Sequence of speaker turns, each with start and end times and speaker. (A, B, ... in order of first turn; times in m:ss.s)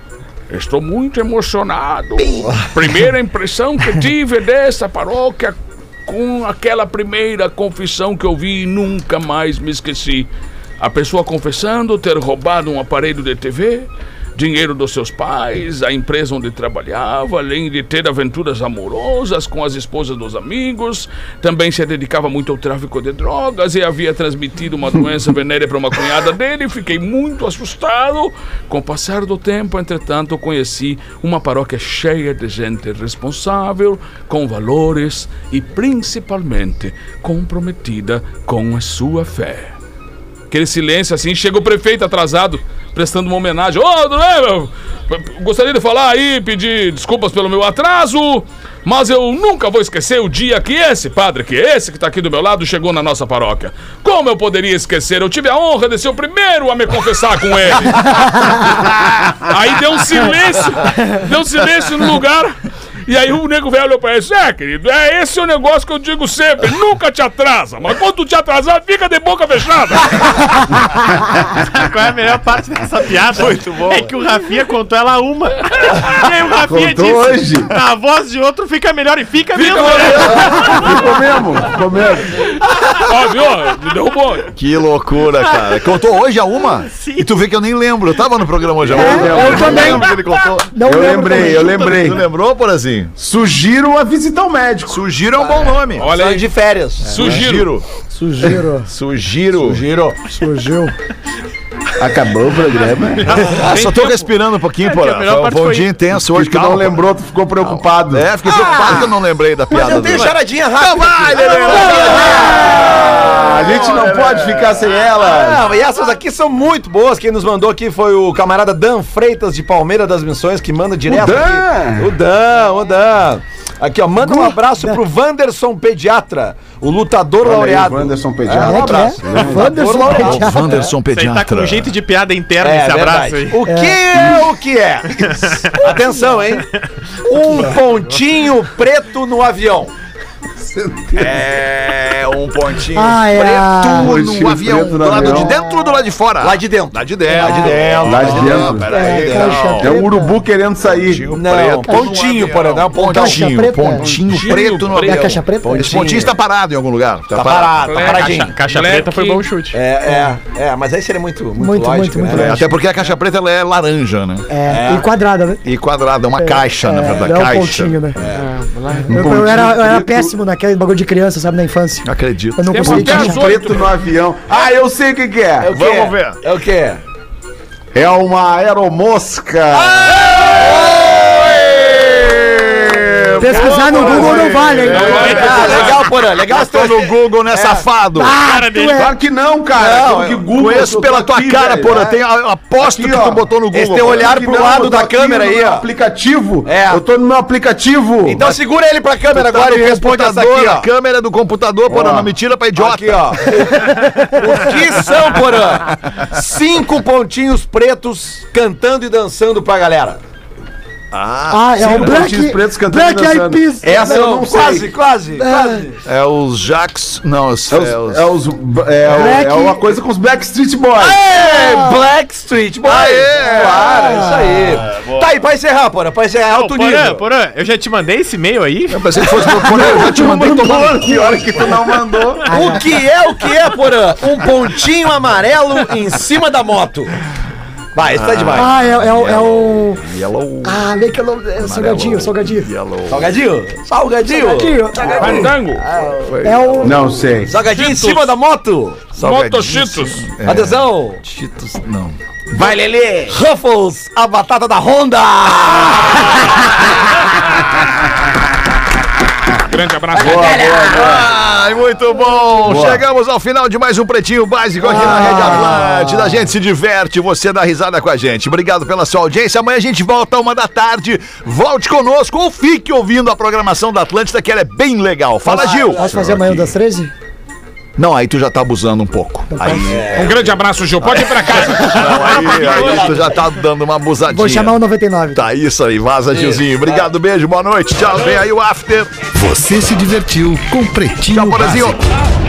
0:00.5-0:05.6 A
0:02.2-0:02.6 B
0:06.1-0:10.3 A
0:10.8-0:39.8 A
0:40.5-1:02.6 A
1:03.1-1:10.7 A
1:11.4-1:21.0 C
1:13.4-1:14.1 D
1:16.6-1:17.7 E
1:19.6-1:21.0 A
1:20.4-1:22.5 E
1:22.8-1:24.5 A
1:24.6-1:33.1 D
1:25.5-1:25.9 C
1:26.9-1:27.3 C
1:28.8-1:30.2 E
1:28.9-1:32.1 F
1:30.8-1:32.2 E
1:33.2-1:35.0 E
1:34.9-1:36.1 D
1:35.4-1:37.4 B
1:36.0-1:36.5 A
1:37.0-1:37.7 A
1:37.2-1:37.9 D
1:38.1-1:38.9 F
1:38.9-1:39.8 D
1:39.6-1:40.2 B
1:40.3-1:40.9 F
1:42.0-1:43.6 E
1:43.4-1:44.3 C
1:43.4-1:47.0 D
1:44.8-1:45.9 C
1:46.2-1:48.3 E
1:47.6-1:55.0 D
1:48.4-1:49.2 B
1:49.7-1:53.2 B
1:52.1-1:55.7 E
1:55.1-2:11.0 B
2:01.1-2:02.1 E
2:04.2-2:05.0 F
2:07.4-2:09.9 E
2:08.5-2:10.7 F
2:10.1-2:11.9 D
2:11.1-2:13.6 C
2:12.6-2:16.7 B
2:13.6-2:14.0 F
2:14.1-2:14.4 E
2:15.2-2:15.9 C
2:17.2-2:19.9 B
2:20.6-2:21.4 E
2:21.2-2:30.0 D
2:23.0-2:24.1 F
2:23.9-2:25.6 E
2:24.8-2:25.9 F
2:26.4-2:29.4 B
2:27.3-2:27.8 F
2:28.0-2:31.4 E
2:28.7-2:30.4 F
2:30.8-2:37.9 D
2:31.3-2:33.5 B
2:33.1-2:34.1 F
2:34.3-2:35.4 A
2:35.0-2:35.9 F
2:35.6-2:36.4 B
2:37.3-2:38.5 B
2:37.9-2:39.4 A
2:37.9-2:39.8 C
2:39.7-2:42.7 B
2:41.6-2:42.6 F
2:42.3-2:44.5 D
2:44.5-2:45.6 F
2:44.7-2:45.1 B
2:45.6-2:48.2 D
2:46.4-2:48.2 F
2:48.2-2:48.5 B
2:48.4-2:49.1 A
2:49.0-2:50.4 E
2:49.1-2:53.6 F
2:52.0-2:53.3 D
2:52.7-2:54.0 A
2:52.9-2:55.8 E
2:55.6-2:57.0 B
2:55.7-2:56.4 D
2:57.9-3:00.2 E
2:59.7-3:02.9 B
3:00.2-3:08.4 D
3:03.4-3:05.5 F
3:03.6-3:05.6 E
3:03.7-3:07.8 B
3:05.0-3:06.0 A
3:08.2-3:09.2 F
3:08.4-3:09.1 C
3:08.9-3:11.9 E
3:09.7-3:10.5 B
3:10.5-3:14.3 D
3:11.7-3:12.2 B
3:12.8-3:13.5 E
3:13.7-3:15.9 B
3:14.2-3:18.5 E
3:16.6-3:17.0 B
3:18.2-3:20.9 B
3:19.3-3:23.5 D
3:21.9-3:22.3 E
3:22.8-3:23.7 B
3:23.7-3:24.6 F
3:24.4-3:30.2 B
3:31.1-3:32.3 D
3:31.5-3:34.2 F
3:31.8-3:34.9 E
3:33.8-3:36.0 B
3:35.4-3:35.8 F
3:36.0-3:38.3 D
3:37.7-3:41.2 E
3:39.1-3:39.8 F
3:41.0-3:47.2 B
3:41.4-3:42.0 F
3:42.8-3:45.3 D
3:44.0-3:44.6 F
3:46.5-3:49.2 C
3:48.9-3:51.7 D
3:49.5-3:52.6 E
3:49.8-3:51.9 B
3:52.5-3:52.8 F
3:52.5-3:57.1 B
3:58.0-3:58.7 B
3:58.1-4:00.9 D
3:58.6-4:00.0 F
4:00.6-4:02.7 F
4:01.6-4:03.3 D
4:03.1-4:09.1 B
4:04.3-4:05.5 F
4:05.2-4:05.8 A
4:06.2-4:07.2 D
4:06.4-4:07.2 F
4:06.8-4:07.5 E
4:07.6-4:08.3 A
4:09.1-4:12.2 D
4:09.2-4:10.3 A
4:10.4-4:11.2 B
4:12.5-4:13.4 E
4:12.5-4:17.2 B
4:19.7-4:20.6 A
4:20.2-4:21.3 E
4:20.2-4:21.2 B
4:20.9-4:36.8 D
4:22.6-4:23.0 E
4:24.8-4:26.2 F
4:24.9-4:25.5 B
4:35.5-4:36.2 B
4:35.5-4:37.1 F
4:38.0-4:40.5 D
4:39.5-4:40.0 F
4:39.8-4:41.7 B
4:40.2-4:43.0 A
4:41.3-4:49.1 D
4:42.4-4:43.3 B
4:44.3-4:45.4 F
4:46.3-4:47.1 B
4:49.3-4:52.1 G
4:51.3-4:52.2 D